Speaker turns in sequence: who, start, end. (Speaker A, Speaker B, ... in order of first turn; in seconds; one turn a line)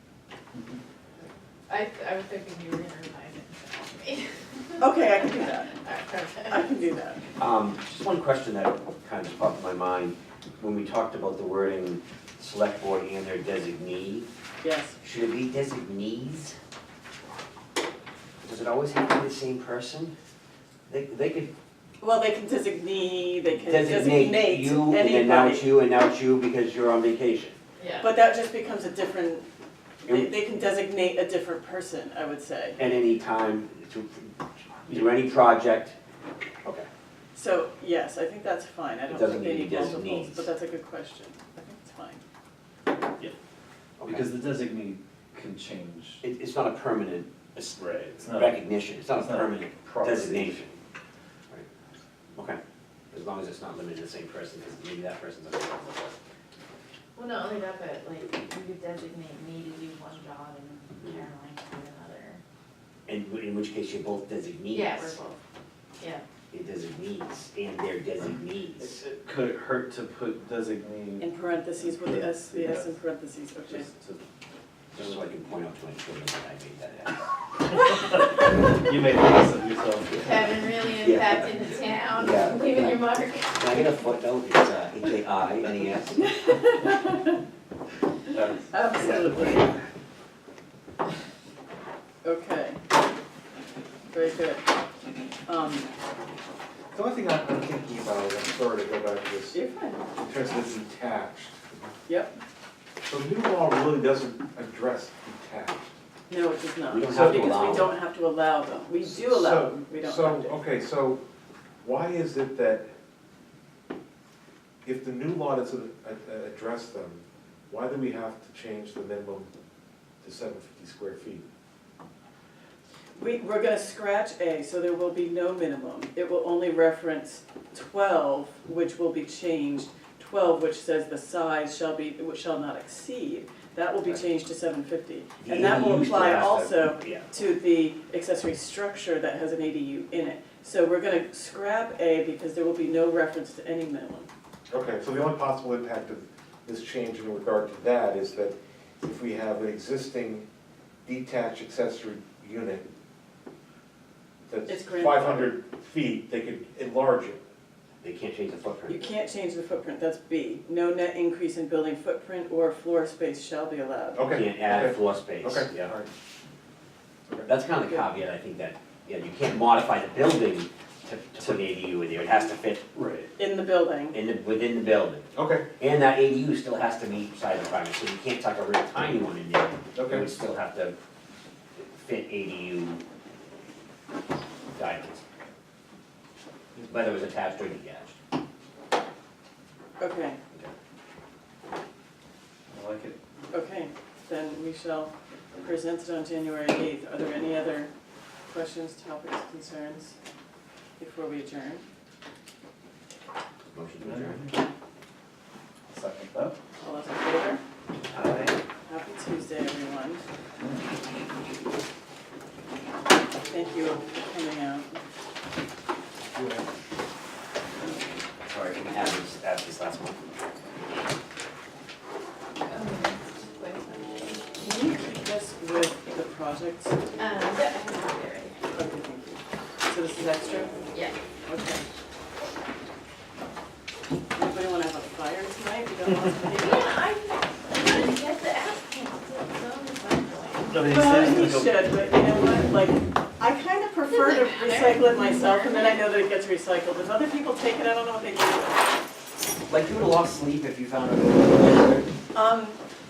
Speaker A: 0.5-0.8
Speaker B: 1.7-4.9
Speaker C: 4.8-5.7
Speaker B: 5.8-6.6
Speaker C: 6.5-7.2
Speaker D: 7.4-14.3
Speaker C: 14.6-15.0
Speaker D: 15.0-16.5
Speaker D: 18.4-20.1
Speaker D: 20.9-21.5
Speaker C: 22.0-25.7
Speaker D: 23.6-27.6
Speaker B: 27.8-28.1
Speaker C: 28.0-29.4
Speaker C: 30.0-32.8
Speaker D: 30.1-30.4
Speaker D: 32.8-34.3
Speaker D: 34.8-36.0
Speaker C: 37.3-42.2
Speaker D: 39.1-40.5
Speaker D: 44.0-44.2
Speaker A: 44.0-46.2
Speaker D: 46.2-50.7
Speaker A: 47.8-50.6
Speaker D: 52.3-52.6
Speaker D: 53.1-56.1
Speaker B: 57.1-62.4
Speaker D: 63.1-65.2
Speaker B: 64.7-65.4
Speaker B: 66.0-66.2
Speaker D: 66.5-69.0
Speaker A: 68.8-73.0
Speaker C: 71.2-73.9
Speaker A: 73.6-74.2
Speaker A: 74.9-75.2
Speaker D: 74.9-77.3
Speaker A: 77.7-80.3
Speaker B: 80.1-83.9
Speaker D: 80.9-86.2
Speaker A: 88.3-89.8
Speaker C: 88.7-89.7
Speaker D: 89.0-89.7
Speaker C: 92.2-92.8
Speaker C: 94.1-94.6
Speaker C: 95.5-95.9
Speaker E: 96.9-99.6
Speaker C: 99.5-100.0
Speaker E: 100.2-101.9
Speaker C: 102.1-102.3
Speaker E: 103.0-105.9
Speaker C: 106.3-110.6
Speaker D: 106.9-107.9
Speaker E: 107.1-107.6
Speaker E: 109.0-111.2
Speaker E: 111.8-112.9
Speaker E: 114.8-119.5
Speaker E: 120.2-121.5
Speaker C: 123.2-144.3
Speaker D: 135.4-137.3
Speaker E: 144.7-150.5
Speaker E: 151.0-152.9
Speaker E: 154.5-157.4
Speaker C: 154.7-155.5
Speaker D: 158.0-159.0
Speaker C: 158.9-164.3
Speaker E: 164.1-166.1
Speaker D: 164.3-165.9
Speaker D: 167.5-172.8
Speaker A: 172.9-173.3
Speaker C: 173.4-174.2
Speaker D: 174.1-175.2
Speaker E: 175.3-175.6
Speaker D: 175.8-180.9
Speaker E: 179.9-180.3
Speaker D: 181.7-183.0
Speaker D: 184.7-185.2
Speaker D: 186.9-188.1
Speaker C: 190.0-190.4
Speaker A: 192.7-193.2
Speaker C: 193.5-197.9
Speaker C: 198.5-200.2
Speaker C: 201.0-201.8
Speaker D: 203.7-204.4
Speaker A: 204.0-204.6
Speaker A: 205.9-206.6
Speaker C: 206.8-207.6
Speaker A: 208.1-208.6
Speaker C: 208.9-210.2
Speaker A: 210.6-210.8
Speaker C: 213.4-215.0
Speaker A: 216.3-216.6
Speaker D: 218.5-220.2
Speaker B: 222.6-224.5
Speaker C: 224.6-226.9
Speaker B: 227.2-228.6
Speaker C: 228.7-230.7
Speaker C: 231.4-231.8
Speaker C: 234.3-236.9
Speaker B: 236.5-240.9
Speaker A: 240.7-241.9
Speaker C: 240.7-248.8
Speaker B: 244.1-246.0
Speaker D: 249.7-252.1
Speaker C: 252.3-252.8